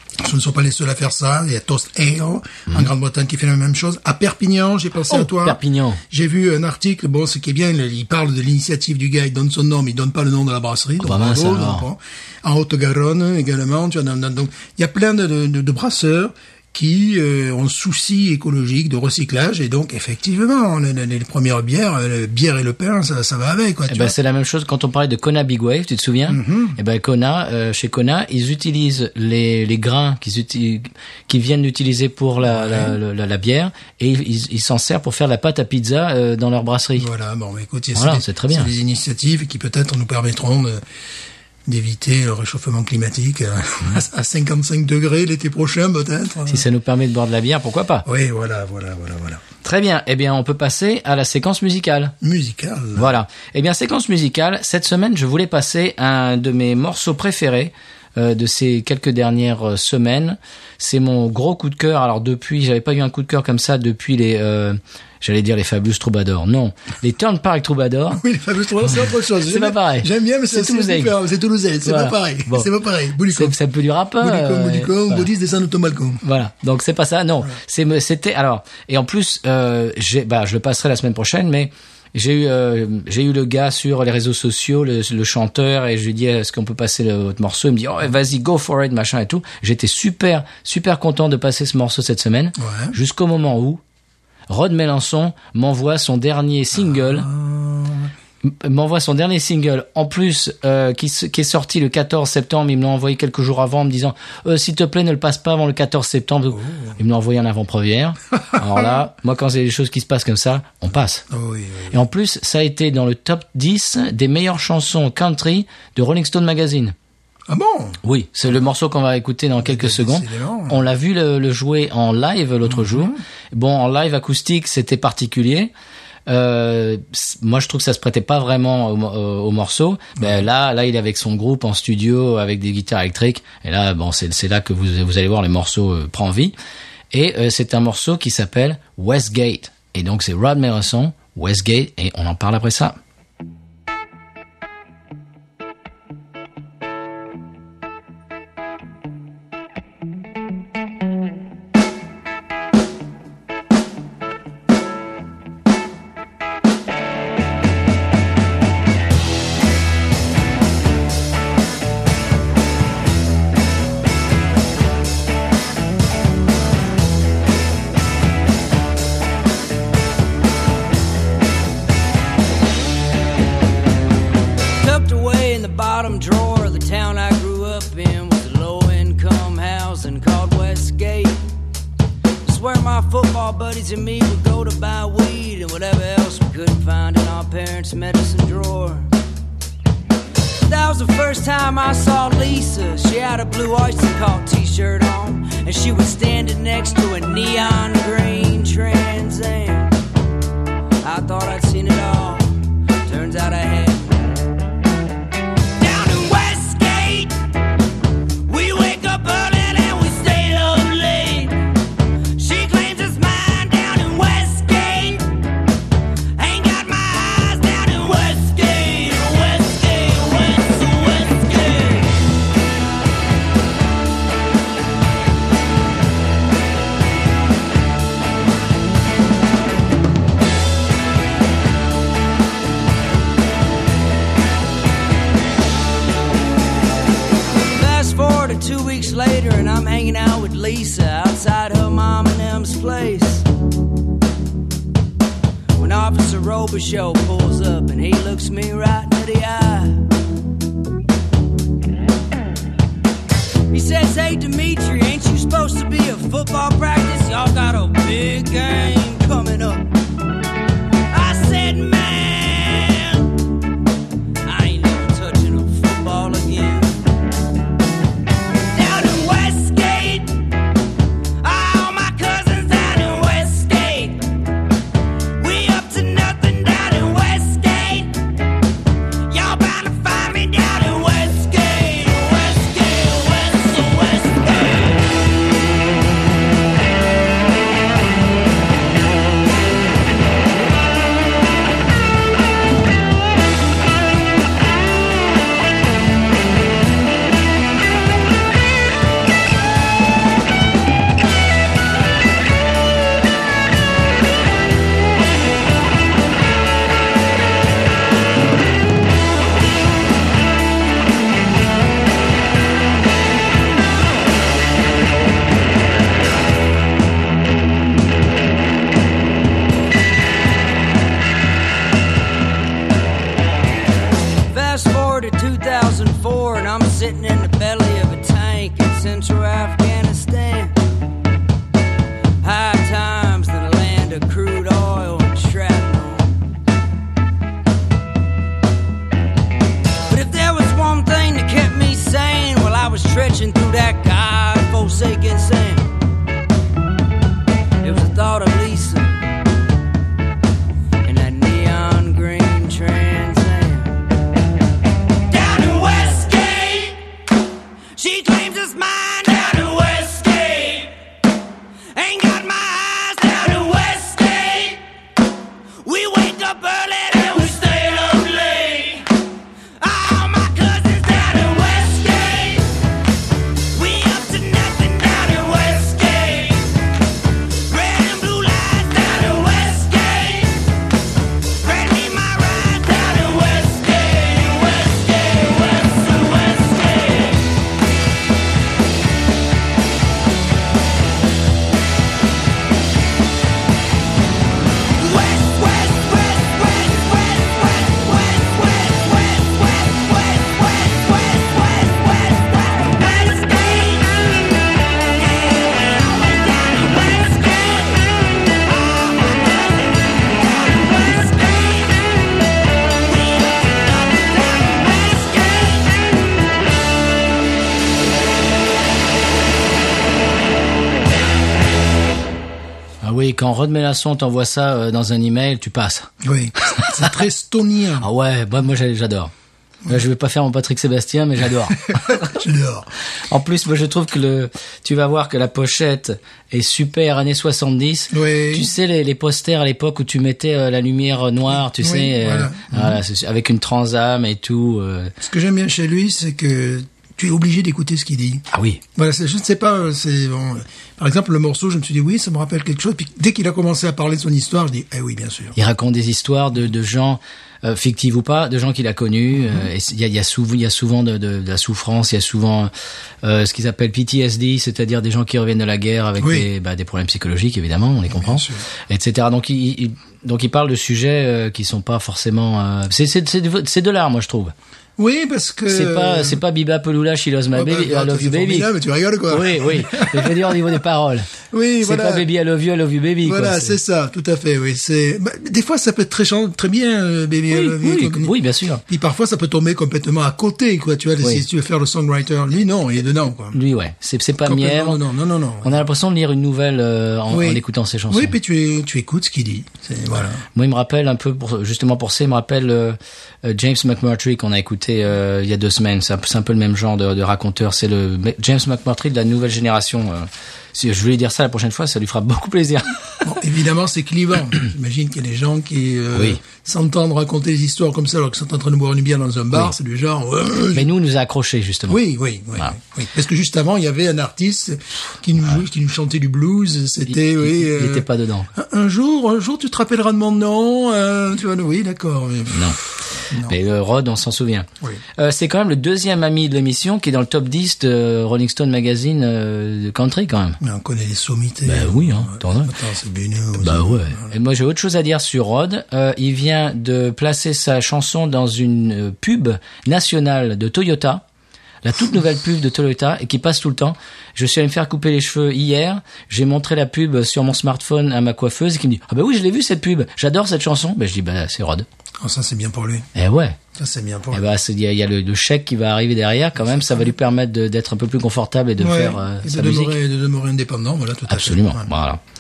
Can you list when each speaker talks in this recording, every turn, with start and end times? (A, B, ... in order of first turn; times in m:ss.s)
0:00.2-0:24.1 A
0:05.1-0:06.0 B
0:11.0-0:11.8 B
0:23.9-0:37.1 B
0:26.3-0:26.8 A
0:32.4-0:33.0 A
0:37.0-0:40.8 A
0:37.9-0:38.7 B
0:41.6-0:46.6 A
0:46.5-0:48.0 B
0:48.0-0:49.4 A
0:49.6-0:52.1 B
0:52.2-0:53.1 A
0:53.0-1:08.2 B
1:08.1-1:13.6 A
1:09.3-1:11.2 B
1:11.8-1:12.7 B
1:13.3-1:15.3 B
1:14.2-1:16.2 A
1:16.2-1:33.8 B
1:32.6-1:32.9 A
1:34.5-1:37.3 B
1:36.8-1:38.1 A
1:38.4-1:51.2 B
1:46.5-1:47.0 A
1:48.5-1:48.9 A
1:51.3-1:52.0 A
1:51.9-1:56.9 B
1:57.5-1:58.0 A
1:58.0-2:05.7 B
1:59.6-2:00.8 A
2:02.7-2:03.2 A
2:06.3-2:16.5 B
2:17.1-2:23.0 B
2:54.8-3:01.4 C
3:02.4-3:09.1 C
3:10.6-3:19.9 C
3:21.0-3:24.4 C
3:25.8-3:27.4 C
3:28.5-3:31.6 C
3:32.3-3:35.4 C
3:36.4-3:42.2 C
3:57.7-4:03.5 C
4:05.8-4:10.1 C
4:13.7-4:19.9 C
4:21.1-4:23.3 C
4:24.4-4:27.0 C
4:28.7-4:30.4 C
4:31.4-4:34.3 C
4:35.4-4:38.2 C
4:39.3-4:45.1 C
5:24.3-5:30.8 C
5:32.4-5:36.4 C
5:40.1-5:45.9 C
5:47.8-5:49.2 C
5:51.0-5:54.0 C
5:55.3-5:57.0 C
5:57.9-6:01.0 C
6:01.9-6:04.8 C
6:05.8-6:09.1 C
6:09.8-6:12.7 C
6:13.7-6:16.8 C
6:17.6-6:20.7 C
6:21.5-6:27.5 C
6:34.9-6:52.3 C
6:52.9-6:56.1 C
7:03.0-7:07.0 B
7:06.2-7:08.1 A
7:08.0-7:09.3 B
7:09.8-7:12.4 B
7:11.8-7:12.9 A
7:13.3-7:25.1 B
7:18.1-7:18.7 A
7:21.7-7:23.0 A
7:25.2-7:35.5 A
7:28.5-7:28.8 B
7:35.5-7:42.7 B
7:43.2-7:54.5 B
7:46.2-7:46.5 A
7:48.1-7:48.6 A
7:55.0-7:56.4 A
7:55.7-7:58.7 B
7:57.5-8:00.7 A
7:59.3-8:03.8 B
8:01.4-8:02.3 A
8:03.2-8:08.3 A
8:07.5-8:08.8 B
8:08.9-8:13.6 A
8:13.5-8:15.0 B
8:14.4-8:15.8 A
8:15.6-8:18.3 B
8:17.3-8:20.4 A
8:20.5-8:33.2 B
8:33.2-8:40.9 A
8:36.1-8:36.4 B
8:40.7-8:42.0 B
8:41.9-8:52.8 A
8:47.1-8:48.5 B
8:52.5-8:52.8 B
8:53.3-8:53.6 A
8:53.4-9:00.6 B
9:00.6-9:04.3 A
9:01.6-9:02.7 B
9:03.6-9:11.2 B
9:11.8-9:21.8 B
9:22.2-9:23.1 A
9:23.1-9:23.6 B
9:23.7-9:24.5 A
9:24.3-9:30.0 B
9:26.7-9:27.1 A
9:28.8-9:31.9 A
9:31.3-9:32.2 B